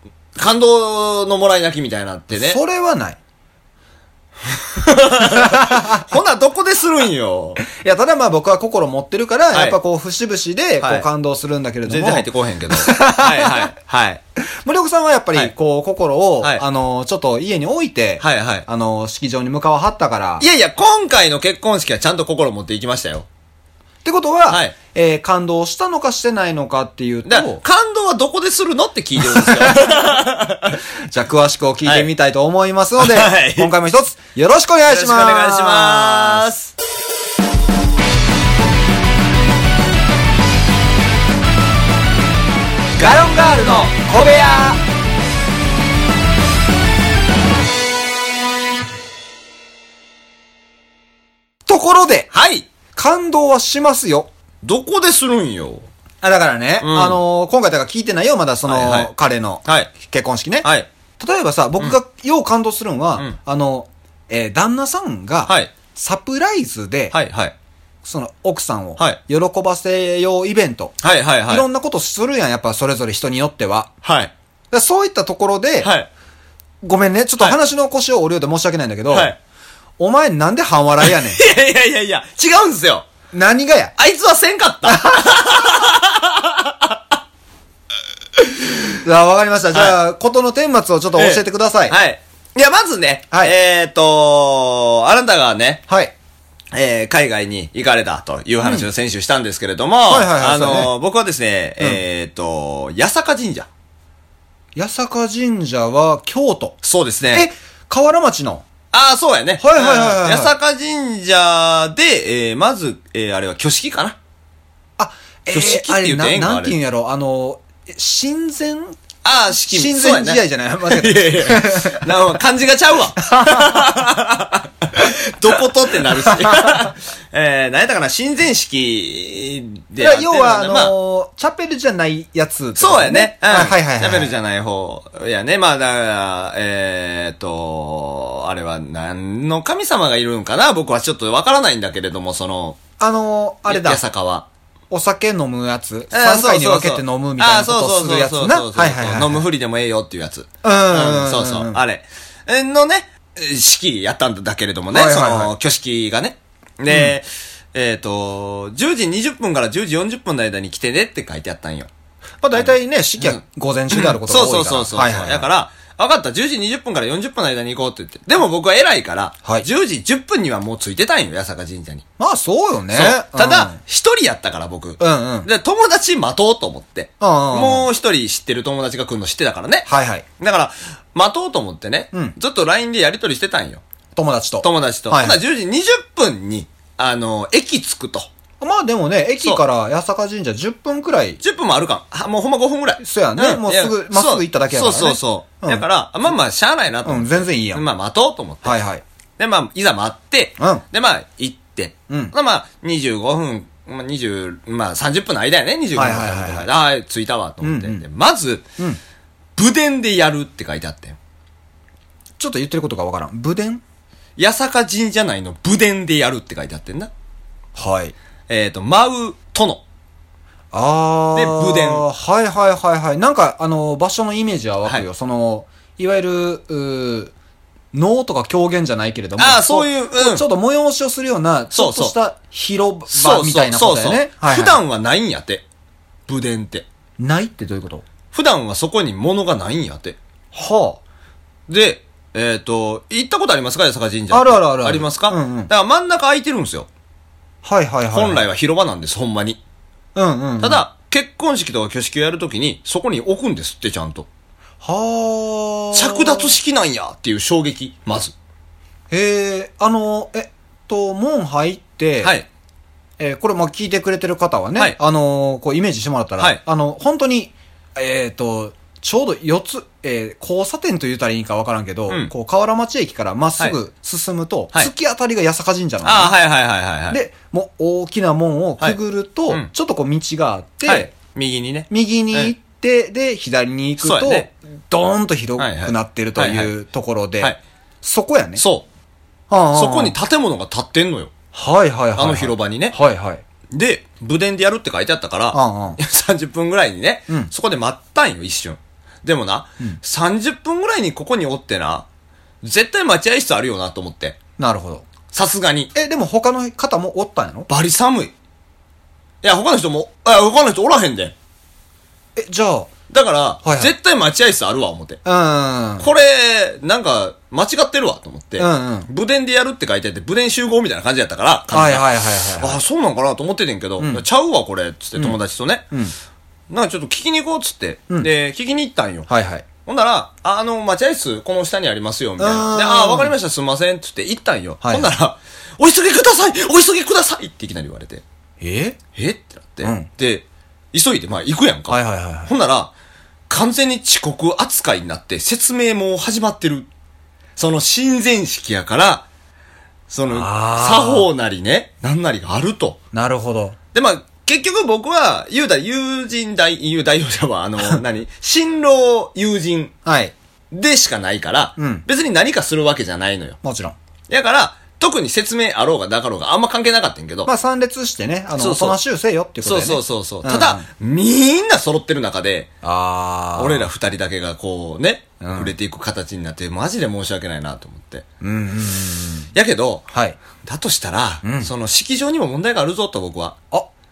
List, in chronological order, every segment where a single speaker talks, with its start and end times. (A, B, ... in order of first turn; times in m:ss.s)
0:00.4-0:02.6 A
0:02.3-0:03.2 B
0:04.5-0:07.6 A
0:05.2-0:06.0 B
0:07.7-0:13.7 B
0:09.5-0:09.8 A
0:10.8-0:11.1 A
0:11.9-0:14.2 A
0:14.6-0:20.5 B
0:18.2-0:18.7 A
0:20.4-0:23.3 A
0:24.0-0:27.6 B
0:24.5-0:24.7 A
0:27.3-0:30.8 A
0:29.2-0:30.1 B
0:31.1-0:36.5 B
0:33.0-0:33.7 A
0:34.9-0:36.7 A
0:43.0-0:44.0 A
0:43.0-0:44.8 B
0:51.7-0:52.3 B
0:52.3-0:52.7 A
0:53.0-0:54.3 B
0:54.6-0:55.9 A
0:56.2-1:00.7 B
0:56.8-0:57.2 A
0:58.7-0:59.1 A
0:59.6-0:59.9 A
1:01.2-1:07.2 B
1:07.1-1:07.5 A
1:08.0-1:11.0 B
1:11.0-1:11.7 A
1:11.5-1:13.9 B
1:14.0-1:14.3 A
1:14.7-1:15.9 B
1:15.8-1:16.1 A
1:16.8-1:19.3 B
1:19.1-1:19.4 A
1:20.0-1:21.4 B
1:21.0-1:23.1 A
1:23.3-1:23.9 B
1:24.0-1:27.0 A
1:24.9-1:25.3 B
1:28.4-1:28.7 A
1:29.0-1:32.0 B
1:29.7-1:30.0 A
1:31.1-1:35.8 A
1:35.9-1:36.1 B
1:36.7-1:43.7 A
1:40.1-1:40.9 B
1:44.8-1:46.8 B
1:46.8-1:47.5 A
1:47.3-1:48.6 B
1:48.9-1:54.2 A
1:49.6-1:50.5 B
1:55.0-1:59.0 B
1:55.5-1:56.8 A
1:59.2-2:10.9 A
1:59.6-2:02.1 B
2:03.2-2:03.9 B
2:06.3-2:06.9 B
2:10.0-2:14.3 B
2:12.8-2:22.8 A
2:23.0-2:24.0 B
2:23.7-2:24.5 A
2:24.9-2:29.5 B
2:26.1-2:41.9 A
2:30.6-2:31.8 B
2:34.9-2:35.5 B
2:42.4-2:45.5 B
2:42.6-2:52.0 A
2:52.2-2:53.8 B
2:52.9-2:59.9 A
2:55.0-2:55.5 B
2:57.2-2:57.9 B
2:59.9-3:00.2 B
3:00.4-3:03.8 A
3:04.2-3:05.4 B
3:04.6-3:08.3 A
3:08.6-3:11.4 B
3:11.4-3:18.8 A
3:13.0-3:15.8 B
3:17.0-3:17.8 B
3:18.6-3:19.0 B
3:19.4-3:28.6 A
3:22.1-3:22.3 B
3:26.0-3:26.7 B
3:27.6-3:28.0 B
3:29.6-3:31.2 A
3:32.4-3:33.8 B
3:34.4-3:37.1 A
3:37.8-3:38.2 B
3:38.5-3:39.8 A
3:40.7-3:47.3 B
3:41.4-3:42.0 A
3:47.9-3:54.8 B
3:49.4-3:50.5 A
3:51.7-3:52.2 A
3:53.1-3:55.6 A
3:56.3-3:56.9 A
3:57.2-3:58.0 B
3:58.3-4:00.2 A
4:00.5-4:01.0 B
4:01.7-4:06.9 A
4:04.3-4:05.7 B
4:07.6-4:08.4 B
4:08.1-4:09.6 A
4:10.2-4:10.8 B
4:10.6-4:14.3 A
4:14.8-4:16.6 B
4:15.9-4:18.3 A
4:19.1-4:22.4 B
4:22.2-4:22.5 A
4:23.2-4:36.4 B
4:36.0-4:37.2 A
4:37.1-4:41.1 B
4:40.8-4:42.5 A
4:41.9-4:48.6 B
4:44.0-4:44.5 A
4:45.6-4:46.7 A
4:48.6-4:48.8 A
4:49.5-4:50.2 B
4:49.7-4:51.3 A
4:51.5-4:53.4 B
4:52.2-4:53.0 A
4:53.7-5:02.1 A
4:55.5-4:56.0 B
5:02.6-5:04.4 A
5:04.6-5:05.0 B
5:05.3-5:05.9 A
5:05.9-5:07.7 B
5:07.7-5:08.3 A
5:09.4-5:11.3 A
5:12.4-5:12.9 B
5:13.1-5:15.2 A
5:13.6-5:13.9 B
5:15.2-5:16.1 B
5:16.0-5:25.9 A
5:18.6-5:19.1 B
5:21.7-5:22.8 B
5:24.0-5:24.2 B
5:26.7-5:29.3 A
5:29.3-5:29.6 B
5:29.8-5:38.2 A
5:32.4-5:33.3 B
5:34.8-5:35.1 B
5:38.6-5:39.0 B
5:39.2-5:42.9 A
5:39.8-5:40.1 B
5:41.9-5:42.5 B
5:43.5-5:46.9 A
5:47.6-5:49.3 A
5:50.1-5:53.0 A
5:50.3-5:51.3 B
5:53.1-5:53.8 B
5:53.9-5:59.9 A
6:00.0-6:00.3 B
6:00.7-6:03.6 A
6:01.8-6:02.0 B
6:03.6-6:04.0 B
6:04.3-6:07.5 A
6:07.5-6:10.9 B
6:08.6-6:09.0 A
6:09.6-6:12.7 A
6:12.8-6:13.9 B
6:13.6-6:18.2 A
6:15.4-6:15.7 B
6:18.4-6:19.5 B
6:19.5-6:20.0 A
6:20.1-6:20.4 B
6:20.6-6:23.6 A
6:21.4-6:21.7 B